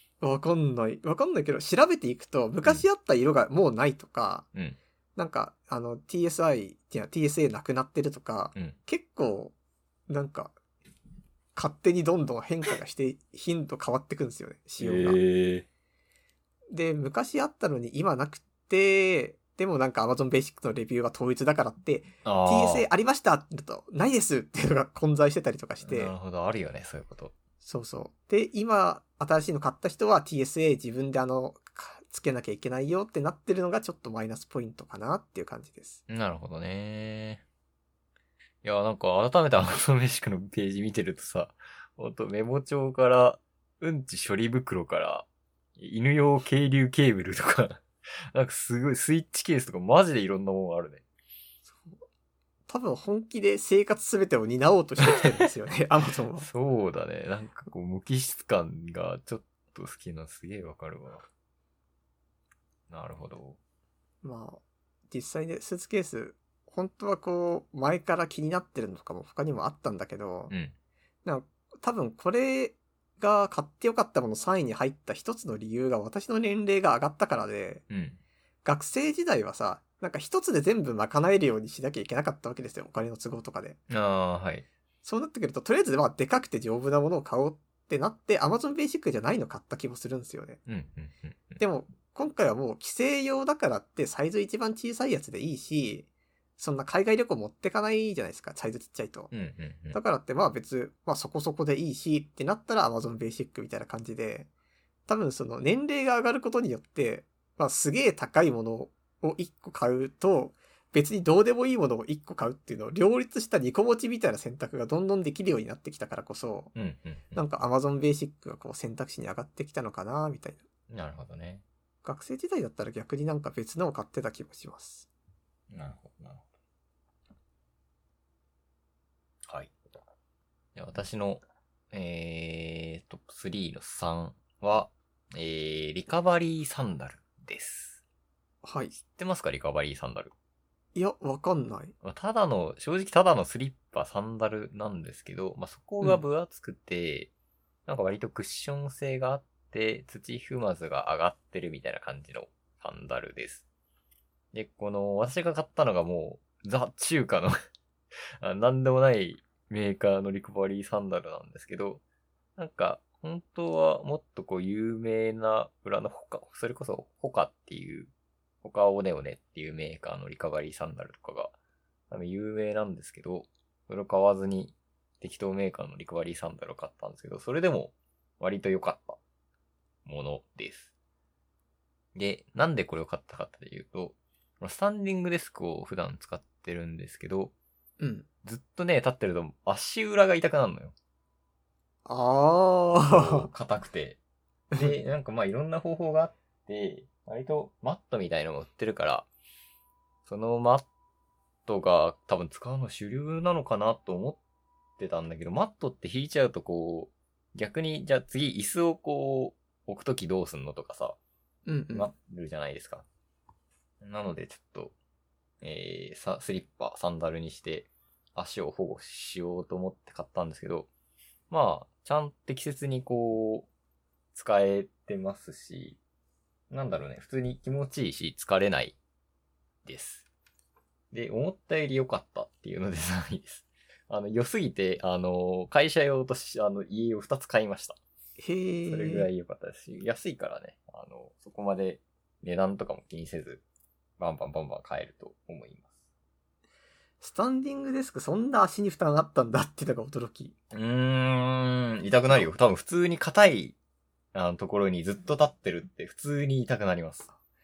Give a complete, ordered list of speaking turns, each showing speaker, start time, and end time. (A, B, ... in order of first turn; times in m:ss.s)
0:00.2-0:04.5 A
0:05.2-0:09.5 A
0:10.1-0:10.6 A
0:11.5-0:15.2 A
0:14.8-0:15.6 B
0:16.7-0:26.1 A
0:22.2-0:22.9 B
0:25.8-0:27.3 B
0:27.6-0:36.0 A
0:36.1-0:37.4 B
0:38.6-0:45.2 B
0:45.8-0:51.0 B
0:51.6-0:52.0 A
0:52.7-0:56.5 A
0:56.4-1:01.2 B
1:02.9-1:03.6 B
1:04.2-1:10.5 A
1:11.2-1:17.8 A
1:17.9-1:18.2 B
1:18.6-1:23.8 A
1:23.9-1:24.6 B
1:25.0-1:30.6 A
1:30.7-1:31.6 B
1:31.6-1:36.1 A
1:36.6-1:39.3 A
1:39.3-1:40.0 B
1:39.9-1:44.5 A
1:45.1-1:56.7 A
1:56.7-1:57.4 B
1:57.3-2:00.6 A
2:00.9-2:01.6 B
2:02.0-2:05.1 A
2:05.7-2:06.4 B
2:09.5-2:09.7 B
2:10.7-2:18.0 B
2:18.6-2:18.9 A
2:19.0-2:20.3 B
2:20.9-2:21.9 A
2:22.0-2:27.3 B
2:27.8-2:33.6 B
2:34.5-2:37.5 B
2:38.4-2:42.0 B
2:42.6-2:48.1 B
2:48.6-2:51.5 B
2:52.1-2:59.2 B
3:00.0-3:00.9 B
3:02.1-3:07.5 B
3:08.0-3:08.2 A
3:08.4-3:10.9 B
3:12.0-3:13.5 A
3:13.0-3:14.2 B
3:14.8-3:19.2 B
3:20.2-3:20.8 B
3:21.7-3:24.4 B
3:25.0-3:31.2 B
3:31.6-3:32.1 A
3:31.9-3:33.0 B
3:34.0-3:34.9 B
3:35.6-3:40.9 B
3:41.5-3:43.7 B
3:44.3-3:46.0 B
3:46.7-3:49.0 B
3:49.8-3:50.2 B
3:51.1-3:58.0 B
3:58.4-3:59.3 A
3:58.9-4:03.6 B
4:04.2-4:05.9 B
4:07.2-4:10.5 A
4:10.7-4:13.8 B
4:14.3-4:17.3 B